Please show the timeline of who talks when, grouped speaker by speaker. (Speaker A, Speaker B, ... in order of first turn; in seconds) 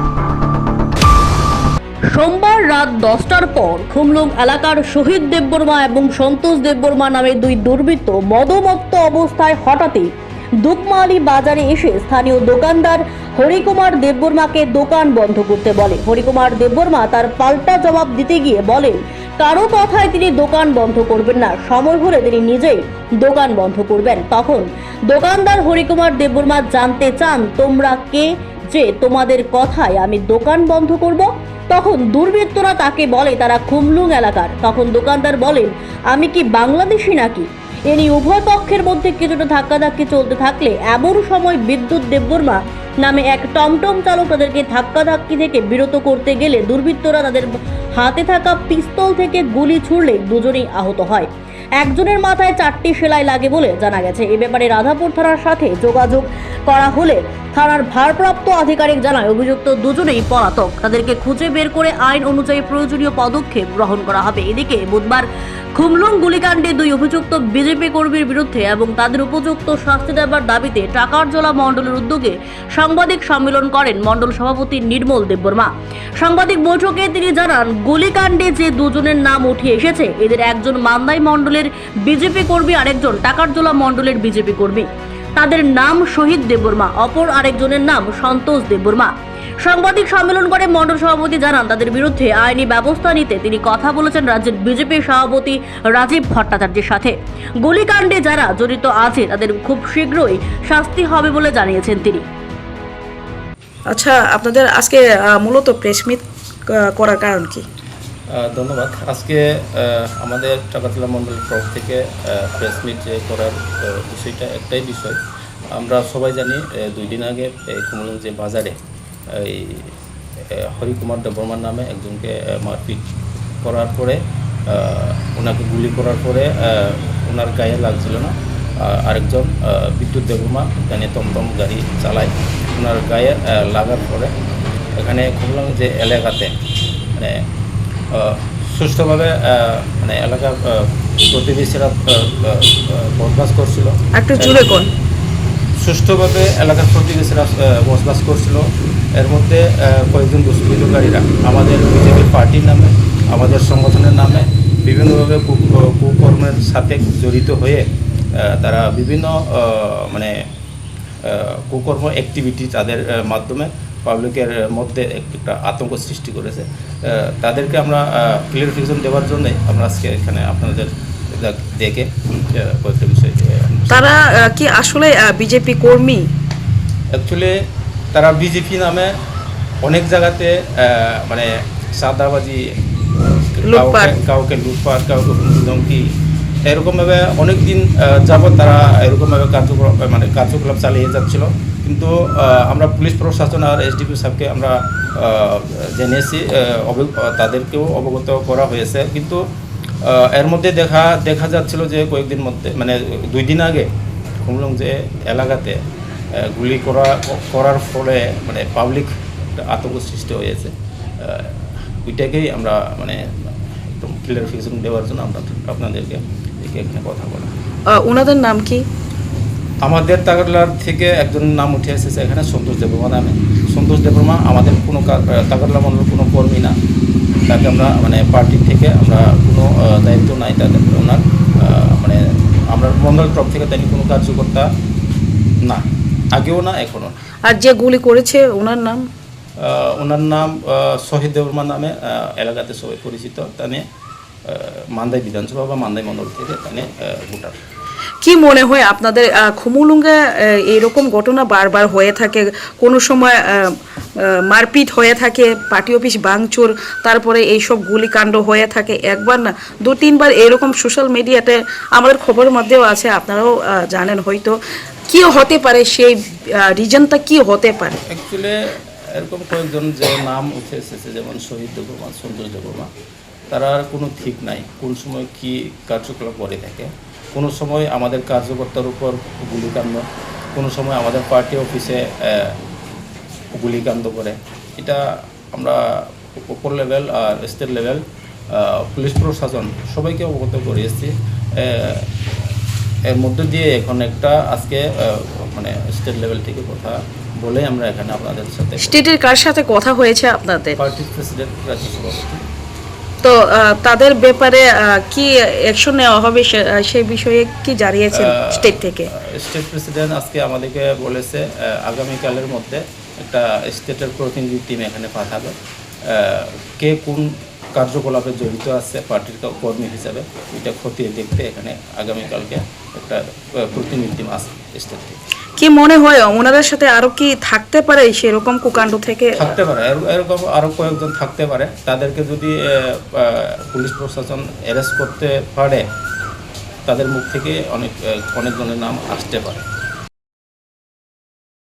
Speaker A: 2.1-10.1, 10.6-102.2
Speaker B: 103.9-107.6, 144.2-144.9, 173.9-176.2, 183.6-184.1, 217.9-218.8, 237.4-239.1, 248.2-264.6, 265.1-268.0, 298.8-300.8, 303.2-309.1, 325.6-329.5
Speaker C: 108.3-115.2, 115.7-118.8, 119.3-119.9, 120.5-123.0, 123.6-134.3, 135.0-136.5, 137.2-137.4, 138.1-144.8, 145.8-148.6, 149.2-157.8, 158.4-160.3, 161.2-174.2, 177.2-177.5, 178.1-179.1, 179.8-186.0, 186.7-199.4, 200.1-203.9, 204.4-205.8, 206.3-217.5, 219.8-226.7, 227.5-232.2, 232.7-234.7, 235.7-237.1, 239.6-243.8, 244.4-247.6, 268.0-272.9, 273.5-280.0, 280.5-282.6, 283.6-288.0, 288.5-292.1, 293.1-299.0, 300.7-302.4, 308.1-315.5, 316.1-325.2, 329.3-335.8, 336.9-339.6